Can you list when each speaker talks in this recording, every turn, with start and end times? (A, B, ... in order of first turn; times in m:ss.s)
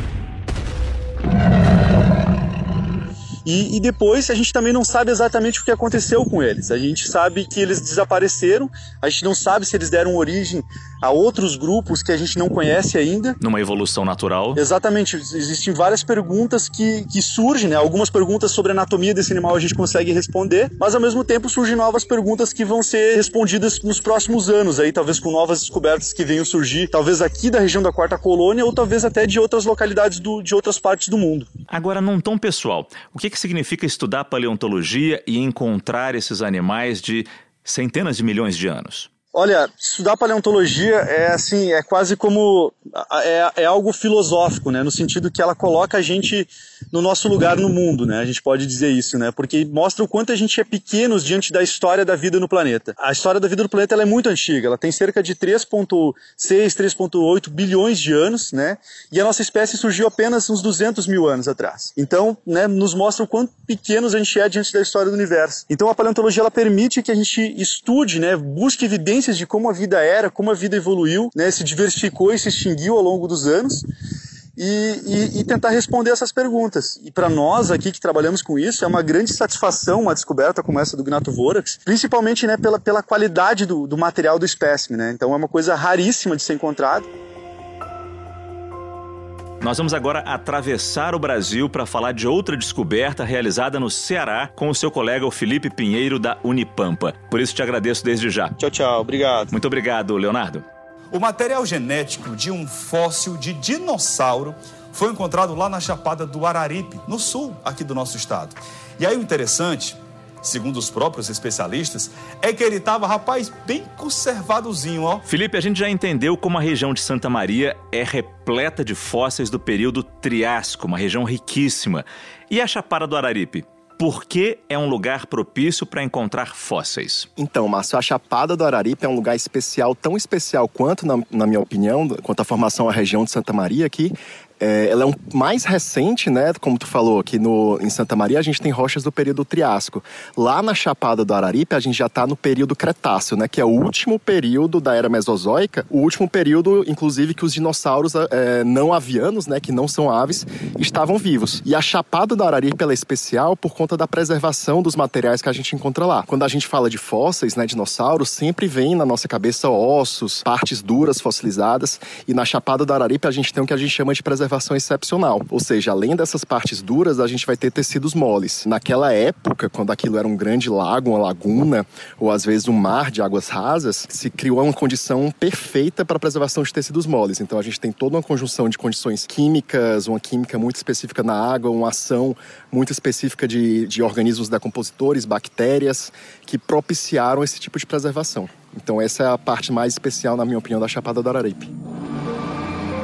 0:03.4-0:13.4 A
0:13.4-0:14.6 B
0:14.6-0:31.5 A
0:31.7-0:39.1 B
0:39.3-1:13.8 A
1:14.6-1:27.1 A
1:29.6-1:38.6 B
1:38.6-1:39.5 A
1:39.5-1:40.6 B
1:41.1-1:55.2 C
1:55.3-2:07.3 B
2:07.4-3:11.7 D